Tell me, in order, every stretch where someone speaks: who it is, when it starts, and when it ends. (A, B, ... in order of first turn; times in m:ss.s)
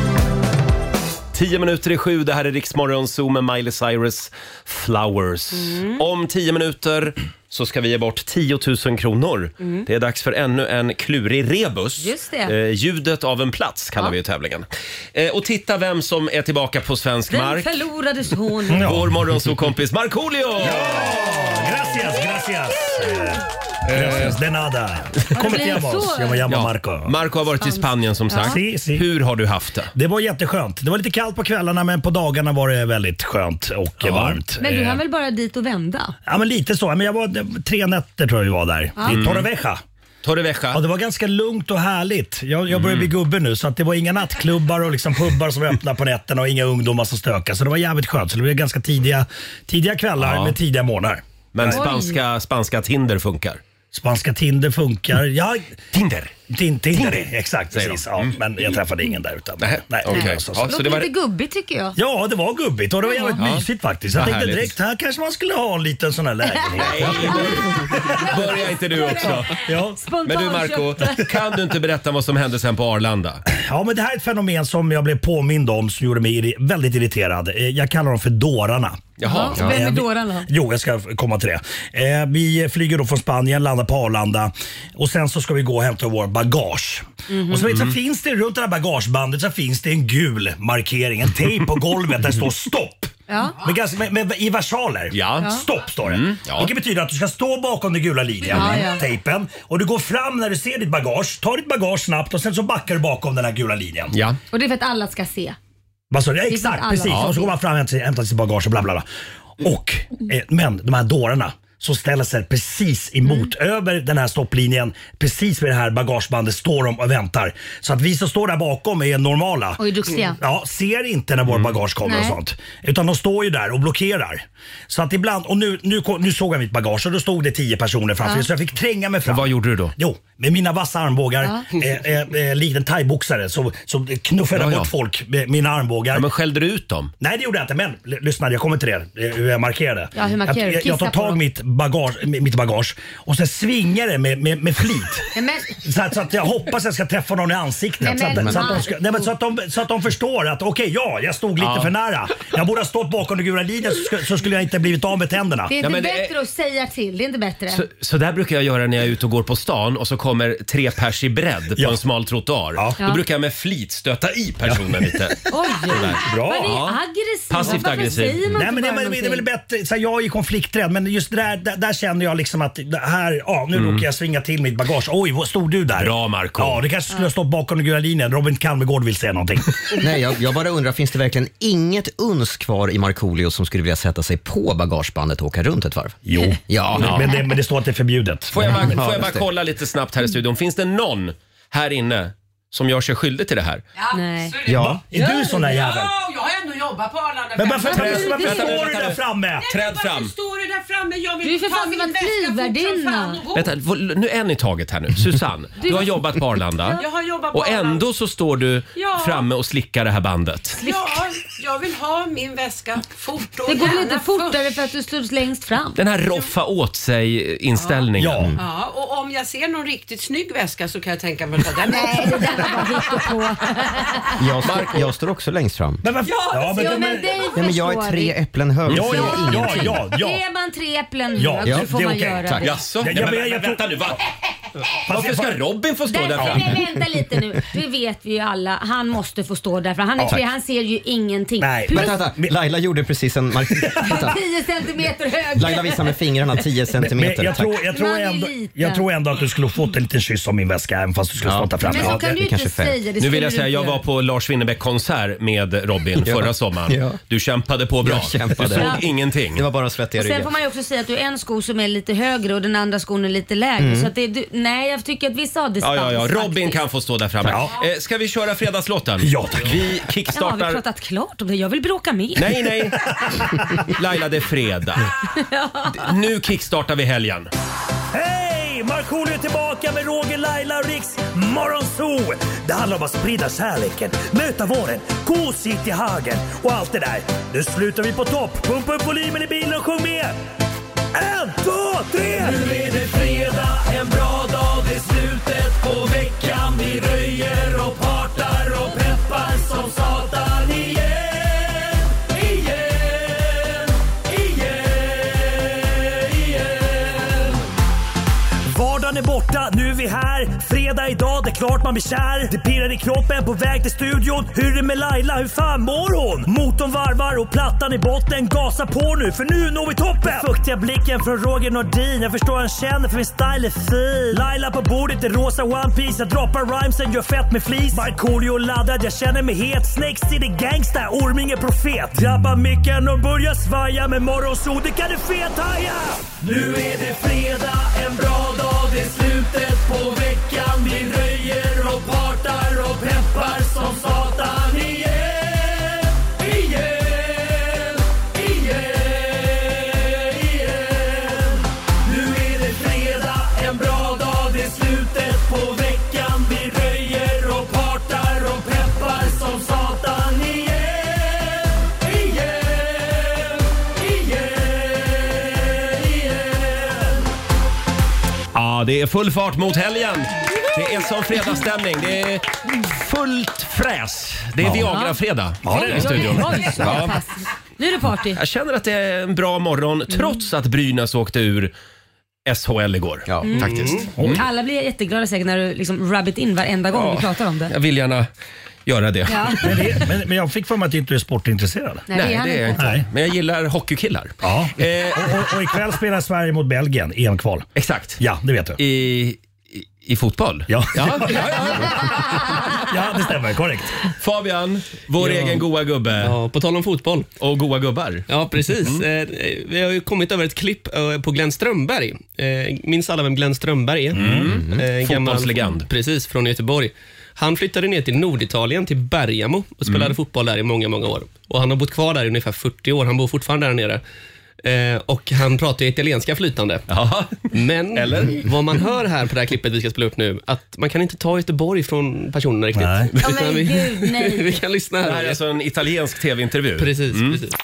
0:01.3-0:17.7 A
0:05.5-0:06.0 B
0:12.0-0:12.5 B
0:17.3-0:18.8 B
0:18.7-0:19.2 C
0:18.8-0:21.1 A
0:20.6-0:27.1 C
0:23.9-0:24.3 A
0:25.4-0:26.4 B
0:26.5-0:29.9 A
0:27.6-0:28.6 B
0:28.5-0:29.0 C
0:29.9-0:35.0 C
0:34.0-0:34.4 A
0:34.6-0:36.2 B
0:36.2-0:39.8 C
0:39.0-0:39.5 A
0:40.2-0:40.8 A
0:40.7-0:51.8 C
0:42.7-0:43.1 A
0:50.2-0:50.5 A
0:51.5-0:53.6 A
0:51.7-0:52.2 B
0:53.9-0:55.8 C
0:55.9-0:56.3 A
0:56.5-1:00.7 C
0:56.9-0:58.3 A
0:59.6-1:01.1 A
1:00.1-1:02.0 B
1:02.0-1:08.4 C
1:03.0-1:03.4 B
1:03.4-1:04.7 A
1:06.8-1:09.6 A
1:08.9-1:11.2 B
1:09.2-1:10.0 C
1:10.2-1:13.4 A
1:13.5-1:19.0 C
1:19.2-1:19.7 A
1:19.2-1:20.5 B
1:19.6-1:44.2 C
1:27.3-1:27.7 B
1:27.7-1:27.9 A
1:33.3-1:33.6 B
1:35.1-1:36.7 A
1:35.4-1:35.6 B
1:38.5-1:39.0 B
1:44.1-1:44.4 A
1:44.5-1:45.6 B
1:46.1-1:49.0 C
1:46.5-1:47.5 B
1:49.6-2:16.2 C
1:59.8-2:00.4 B
2:01.4-2:01.8 A
2:02.0-2:02.4 B
2:09.2-2:09.9 A
2:14.5-2:14.9 A
2:16.1-2:17.1 A
2:17.2-2:35.7 C
2:20.1-2:21.4 B
2:25.3-2:25.8 B
2:28.0-2:29.0 B
2:31.6-2:31.9 A
2:35.7-2:37.8 B
2:35.8-2:36.3 A
2:37.7-2:47.0 A
2:44.6-2:45.3 C
2:45.5-2:49.4 B
2:46.2-2:46.8 C
2:47.5-2:48.4 A
2:47.6-3:00.0 C
2:53.7-2:54.0 A
2:55.9-2:56.8 A
3:00.0-3:07.2 D
3:06.2-3:09.0 C
3:07.0-3:07.2 A
3:08.5-3:13.8 A
3:08.8-3:09.5 D
3:13.9-3:18.7 E
3:14.1-3:14.5 B
3:14.6-3:15.0 D
3:14.7-3:16.1 C
3:17.6-3:19.6 C
3:17.8-3:18.8 B
3:17.9-3:20.3 A
3:19.6-3:23.7 E
3:21.4-3:23.4 B
3:23.5-3:30.8 A
3:25.8-3:26.1 B
3:26.9-3:28.0 E
3:28.9-3:29.4 E
3:30.8-3:34.7 E
3:33.6-3:36.0 B
3:36.0-3:38.5 A
3:37.8-3:43.3 E
3:38.2-3:38.5 C
3:41.9-3:44.1 B
3:44.4-3:46.1 D
3:44.6-3:45.0 A
3:46.0-3:47.4 C
3:46.3-3:48.4 B
3:46.3-3:47.2 E
3:47.5-3:50.0 D
3:48.9-3:50.4 C
3:48.9-3:52.8 B
3:51.3-3:54.2 C
3:51.6-3:52.7 D
3:52.6-3:54.2 A
3:55.0-3:55.6 C
3:55.0-3:56.7 A
3:56.1-4:02.2 B
3:56.4-3:56.6 C
4:01.6-4:02.5 C
4:01.9-4:04.4 D
4:04.0-4:06.2 B
4:05.5-4:07.8 D
4:07.0-4:12.2 C
4:07.9-4:09.0 B
4:11.4-4:13.0 D
4:11.8-4:14.0 B
4:13.2-4:19.6 A
4:16.2-4:17.2 D
4:18.0-4:20.5 D
4:18.7-4:19.0 B
4:20.2-4:26.8 B
4:23.8-4:24.1 D
4:25.8-4:30.8 A
4:27.4-4:27.8 C
4:29.2-4:29.8 C
4:30.3-4:32.5 B
4:32.4-4:33.1 A
4:33.0-4:33.6 C
4:33.9-4:35.1 A
4:35.2-4:36.1 B
4:35.9-4:37.5 A
4:38.1-4:50.3 C
4:51.1-4:54.5 C
4:55.1-5:01.4 C
5:08.6-5:45.6 C
5:52.2-5:58.2 C
5:59.6-6:00.7 C
6:08.5-6:17.2 A
6:14.6-6:14.9 C
6:14.9-6:18.4 B
6:15.6-6:17.0 C
6:18.3-6:21.7 A
6:20.1-6:20.4 B
6:22.4-6:24.4 A
6:23.3-6:23.7 D
6:23.4-6:27.7 B
6:24.1-6:24.4 C
6:26.9-6:28.3 A
6:28.8-6:30.0 A
6:29.3-6:29.6 B
6:29.6-6:32.0 C
6:32.1-6:32.8 B
6:32.1-6:35.5 A
6:32.8-6:33.0 C
6:34.4-6:37.7 C
6:37.8-6:38.2 A
6:38.2-6:38.8 C
6:38.8-6:42.2 A
6:40.7-6:44.0 C
6:44.1-6:46.3 A
6:45.2-6:45.6 F
6:46.2-6:47.3 F
6:47.4-6:48.3 A
6:48.3-7:04.0 F
6:54.1-6:55.9 A
6:54.2-6:54.5 C
6:54.4-6:54.8 D
6:59.9-7:00.1 A
7:04.6-7:06.8 F
7:06.9-7:08.4 A
7:07.5-7:15.4 F
7:12.7-7:13.1 C
7:13.2-7:14.6 B
7:15.0-7:17.4 A
7:16.8-7:17.5 F